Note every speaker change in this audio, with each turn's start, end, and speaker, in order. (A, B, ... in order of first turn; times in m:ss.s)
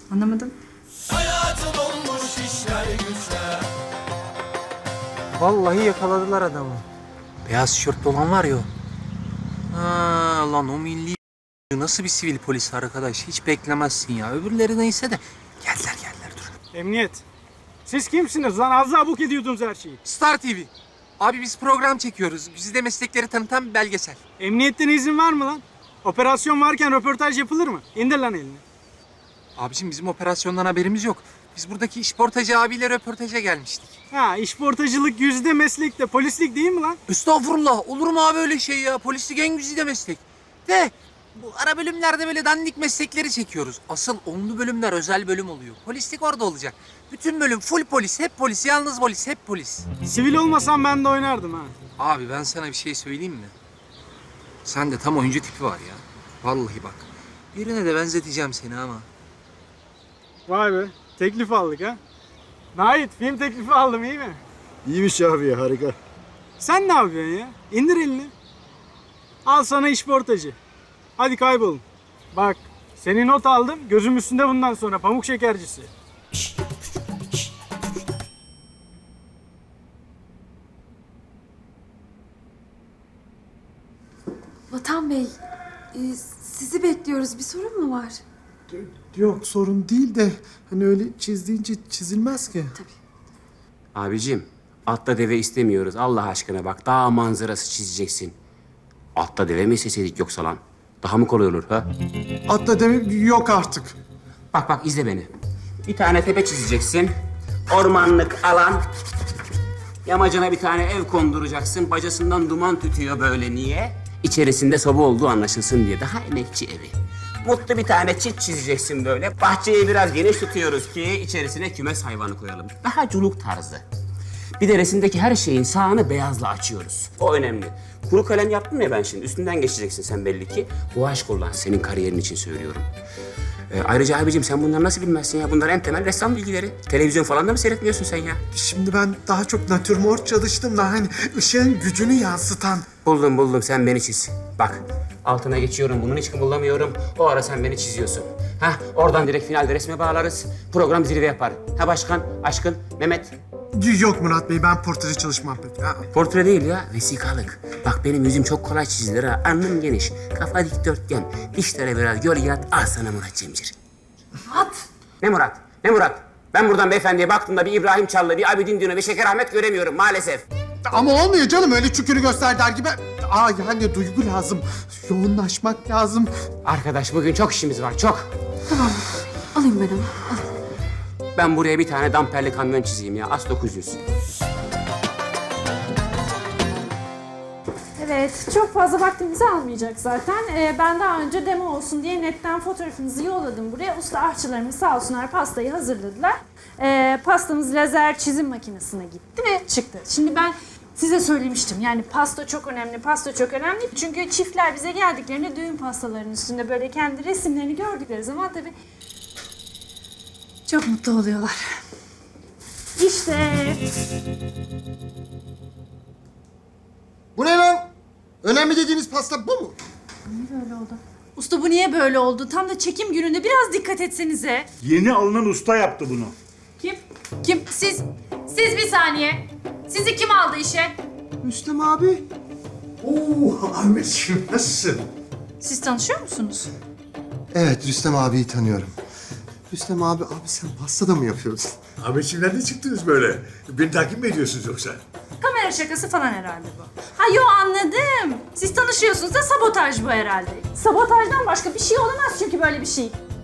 0:00.1-0:00.5 A
0:05.4-0:06.8 B
0:07.4-0:08.7 B
0:09.7-0:11.2 B
0:11.7-0:16.5 B
0:16.7-0:17.2 C
0:17.9-0:20.0 C
0:20.0-0:20.7 B
0:21.2-0:24.2 B
0:24.4-0:28.6 C
0:29.6-0:33.9 B
0:34.1-0:37.0 C
0:37.1-0:49.8 B
0:50.0-0:51.7 C
0:52.0-0:53.5 B
0:54.6-0:59.0 B
1:00.5-1:02.0 C
1:02.8-1:04.4 C
1:06.6-1:08.3 C
1:09.4-1:10.5 C
1:11.2-1:11.8 C
1:12.3-1:15.9 C
1:24.7-1:25.3 D
1:25.9-1:28.2 D
1:28.7-1:32.7 E
1:33.9-1:38.3 F
1:39.2-1:41.9 F
1:42.5-1:43.9 E
1:44.5-1:45.3 F
1:45.8-1:47.1 F
1:47.7-1:48.8 F
1:50.0-2:03.8 F
2:04.6-2:12.9 F
2:13.7-2:18.4 F
2:18.5-2:22.8 E
2:23.0-2:33.4 F
2:33.7-2:36.0 E
2:36.1-2:43.7 F
2:45.2-2:50.4 F
2:50.8-2:56.3 E
2:56.6-2:58.3 F
2:58.7-2:59.0 D
2:59.6-3:00.4 D
3:01.4-3:04.0 F
3:08.0-3:28.7 A
3:30.6-3:31.6 A
3:33.0-3:33.8 A
3:40.3-3:44.7 A
3:45.5-3:46.3 G
3:46.8-3:50.9 A
3:51.4-3:52.2 H
3:53.0-3:55.0 G
3:55.6-3:56.7 A
3:57.5-3:58.9 H
3:59.7-4:01.7 H
4:02.0-4:05.0 G
4:05.4-4:13.2 A